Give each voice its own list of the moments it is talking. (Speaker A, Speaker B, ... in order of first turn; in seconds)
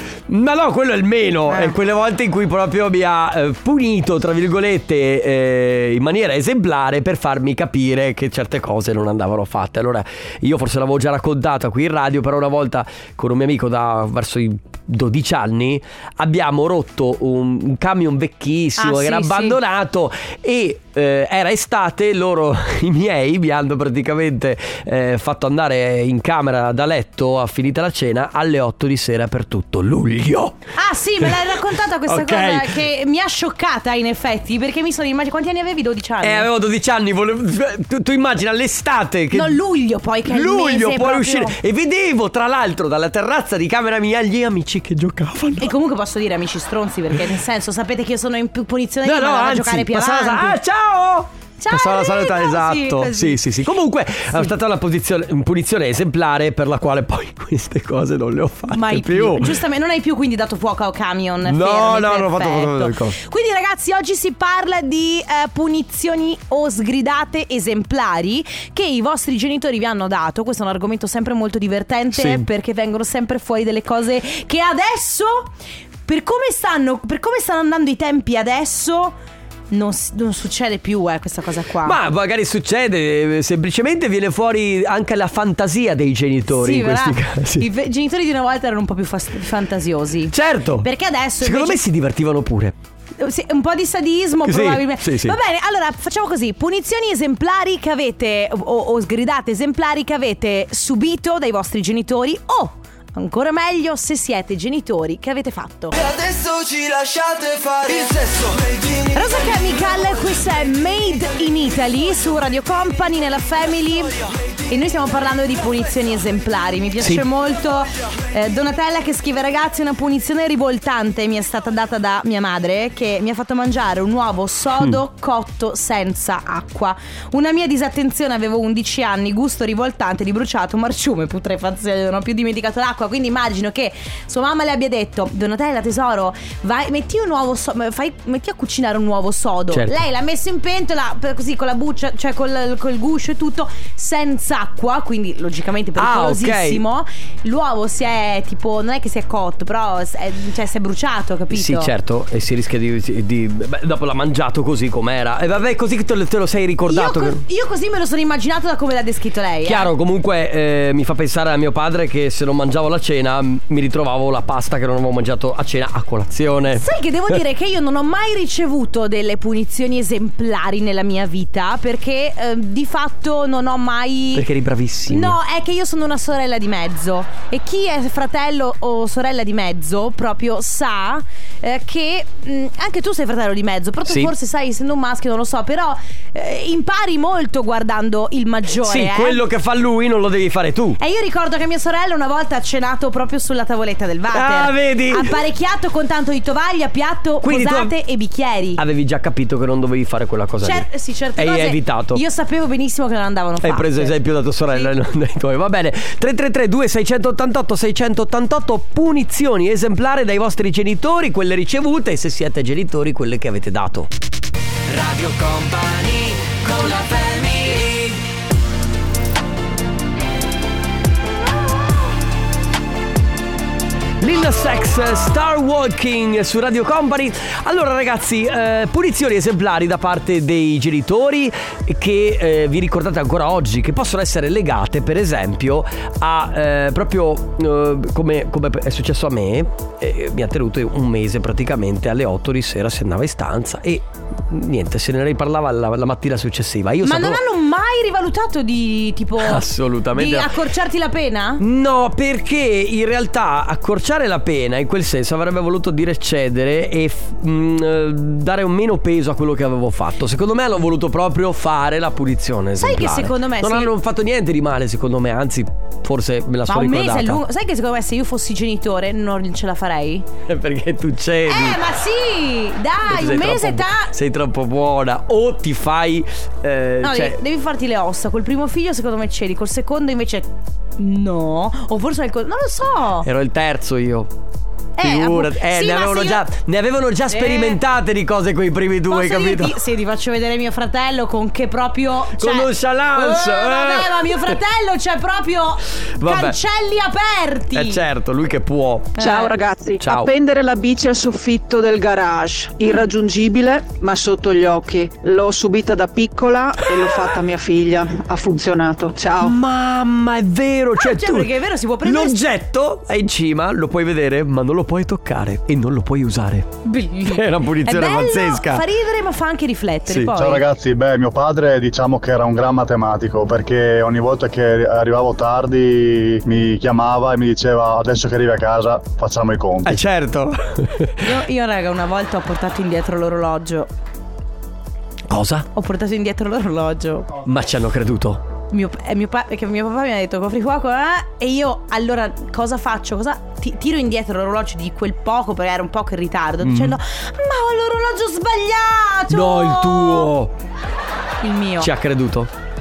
Speaker A: 0.3-30.6, 32.0-32.8, 36.2-39.6, 40.2-45.7, 49.0-59.6, 61.4-63.2, 72.1-72.5, 81.8-87.7, 90.3-90.9, 91.4-92.8, 94.4-95.4, 139.7-140.0, 146.0-146.8, 151.5-157.4, 159.6-166.8, 174.3-175.4, 184.1-184.3, 188.8-191.0, 194.3-195.4, 197.4-197.9, 198.8-202.2, 203.6-214.1, 214.9-218.1, 224.2-247.4, 249.4-250.5, 251.6-267.4, 270.5-271.8, 273.1-277.4, 283.2-284.3, 285.0-289.8, 292.4-294.6, 296.2-296.6, 297.7-299.2, 300.0-300.3, 309.4-316.7, 317.2-318.9, 320.1-320.4, 329.8-331.3, 335.3-335.7, 337.4-338.4, 346.6-347.0, 349.3-350.5, 351.8-352.5
Speaker B: 1.5-1.7, 18.8-19.6, 30.8-36.5, 39.3-41.5, 45.6-50.6, 51.6-53.4, 58.7-75.5, 76.1-79.1, 79.7-82.0, 86.5-91.8, 93.2-105.9, 109.1-151.9, 156.9-159.9, 166.7-174.4, 175.1-189.4, 191.0-198.8, 200.6-204.2, 247.0-251.6, 262.8-263.9, 266.7-270.3, 271.5-274.1, 277.0-283.3, 285.0-286.4, 287.3-287.8, 289.1-298.0, 299.2-299.5, 311.0-312.5, 316.8-320.6, 331.2-333.9, 335.7-337.3, 338.7-350.3, 351.4-351.9
Speaker C: 106.0-108.8
Speaker D: 299.2-309.6
Speaker E: 320.3-330.0